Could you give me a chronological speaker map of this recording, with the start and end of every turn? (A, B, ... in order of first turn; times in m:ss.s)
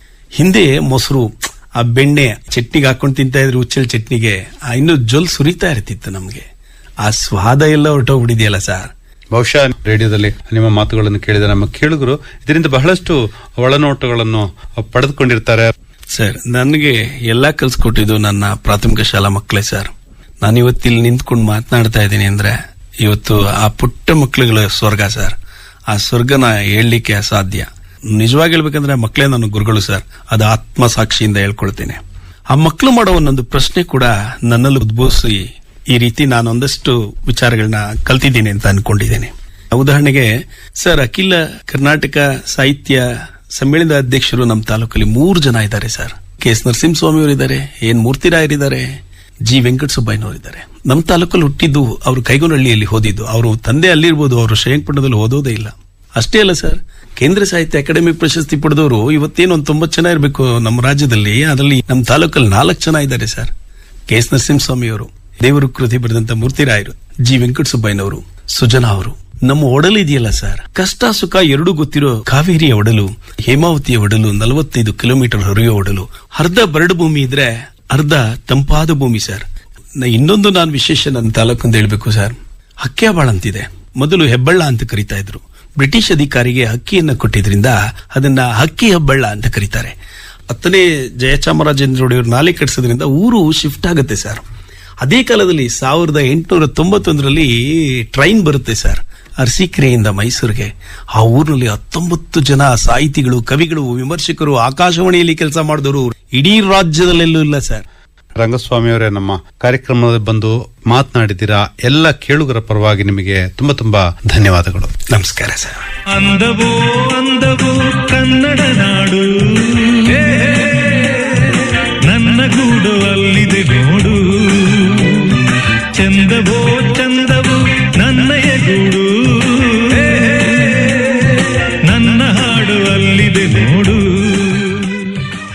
0:00.4-0:06.4 A
0:07.0-0:08.9 A
0:09.3-0:15.7 B
0:16.1-0:19.9 A
0:20.4-0:25.4 A
0:25.9-0:48.9 A
0:49.4-1:03.5 A
1:04.1-1:19.4 A
1:20.0-1:29.9 A
1:30.5-1:34.4 A
1:35.0-1:47.8 A
1:48.4-1:54.9 B
1:55.1-1:55.9 A
1:56.1-2:05.4 C
2:05.9-2:15.1 C